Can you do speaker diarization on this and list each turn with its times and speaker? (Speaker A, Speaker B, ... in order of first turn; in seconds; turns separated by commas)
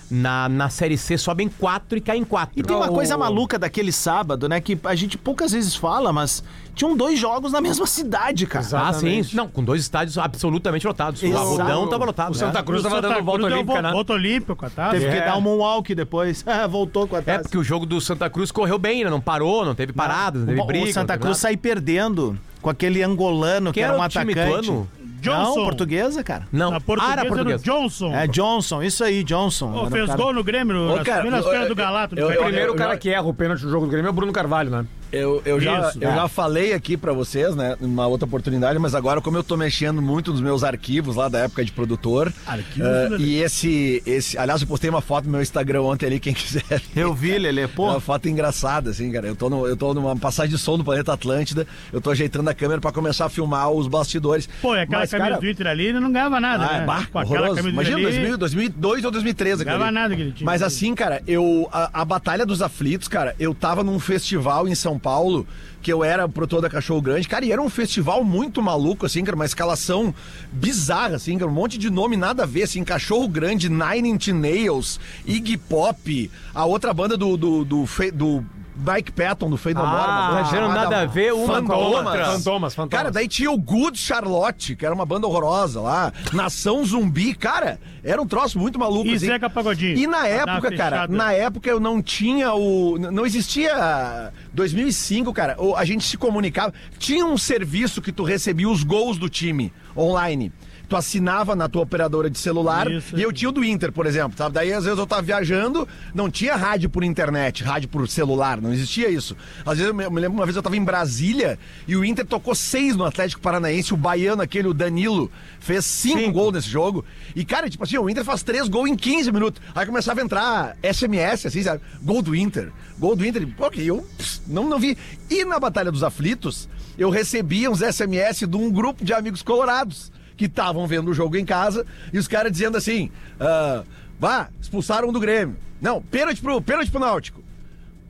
Speaker A: 0.1-3.0, Speaker B: 2.5-8.7, Speaker C: 2.6-3.4, Speaker C: 8.5-9.4, Speaker A: 8.8-12.5, Speaker B: 11.2-12.6, Speaker C: 11.2-14.0, Speaker D: 12.6-15.1, Speaker B: 14.9-17.5, Speaker C: 14.9-15.4, Speaker A: 17.2-21.4, Speaker B: 20.0-26.5, Speaker A: 23.7-24.9, Speaker D: 25.2-25.8, Speaker A: 26.5-27.6, Speaker D: 26.6-28.3, Speaker B: 28.1-30.3, Speaker D: 29.7-32.7, Speaker E: 30.8-33.0, Speaker C: 32.3-34.9, Speaker E: 35.1-47.2, Speaker D: 35.5-36.1, Speaker B: 36.0-36.3, Speaker D: 42.5-43.3, Speaker B: 46.9-48.0, Speaker E: 47.8-55.5, Speaker D: 54.6-58.3, Speaker E: 56.5-89.4, Speaker D: 59.6-60.8, Speaker C: 79.7-83.2, Speaker A: 80.3-82.4, Speaker D: 89.0-91.3, Speaker E: 89.9-137.4, Speaker D: 102.7-103.3, Speaker A: 116.1-116.4